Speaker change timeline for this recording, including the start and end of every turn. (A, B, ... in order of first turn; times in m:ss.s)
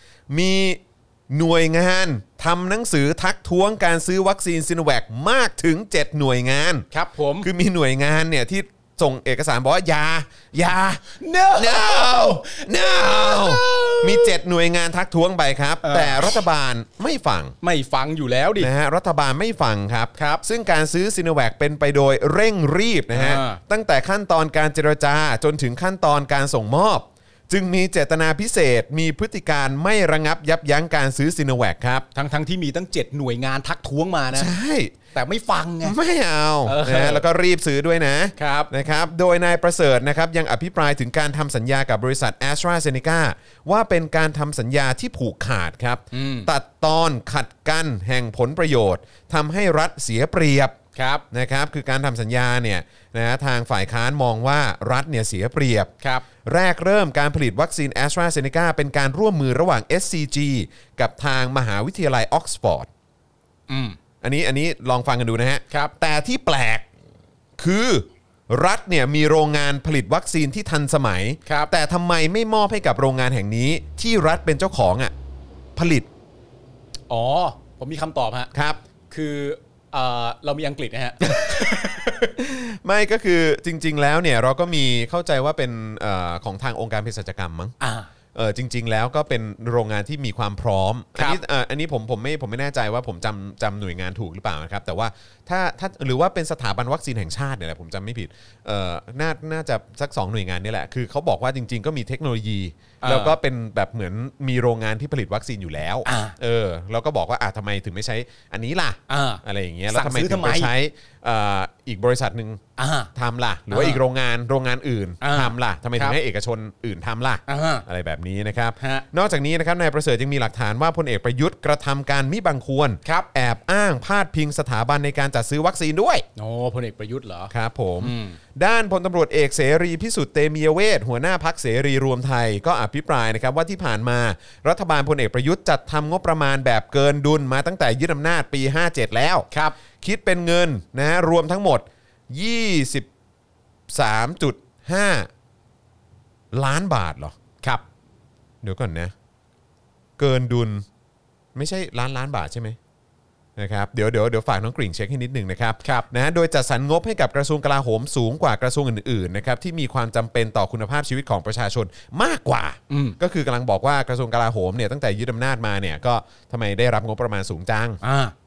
0:00.3-0:06.9 A
0:06.9-0:07.5 B
0:07.4-0:11.0 A
0:11.1-0:14.3 B
0:11.6-0:17.6 A
0:15.8-0:16.4 B
0:17.6-0:18.7 B
0:18.6-0:32.0 A
0:20.2-0:20.4 B
0:23.1-0:23.6 B
0:32.1-0:34.5 B
0:34.3-0:35.0 A
0:35.1-0:36.0 B
0:35.8-0:50.8 A
0:36.6-0:37.2 B
0:38.4-0:38.7 B
0:46.1-0:46.5 B
0:51.0-0:51.2 B
0:51.3-0:55.9 A
0:56.4-1:02.9 A
1:03.7-1:04.0 B
1:04.2-1:06.8 A
1:07.6-1:15.1 A
1:11.4-1:11.7 B
1:15.8-1:16.1 A
1:17.1-1:18.5 B
1:18.5-1:18.8 A
1:19.1-1:22.3 B
1:21.3-1:21.7 A
1:22.4-1:27.7 A
1:27.8-1:28.1 B
1:28.3-1:52.6 A
1:43.0-1:43.4 B
1:46.0-1:46.4 B
1:49.1-1:50.7 B
1:52.8-1:53.1 B
1:53.1-2:06.3 A
1:53.7-1:54.0 B
1:55.2-1:56.2 B
1:57.5-1:57.8 B
1:58.8-1:59.0 B
2:06.4-2:07.5 B
2:07.5-2:19.5 A
2:08.0-2:08.4 B
2:19.5-2:19.8 B
2:20.0-2:23.1 A
2:23.9-2:25.3 A
2:26.5-2:27.3 A
2:28.6-2:29.1 A
2:30.2-2:30.8 A
2:31.6-2:32.8 A
2:33.6-2:48.0 A
2:42.9-2:43.2 B
2:48.0-2:48.3 B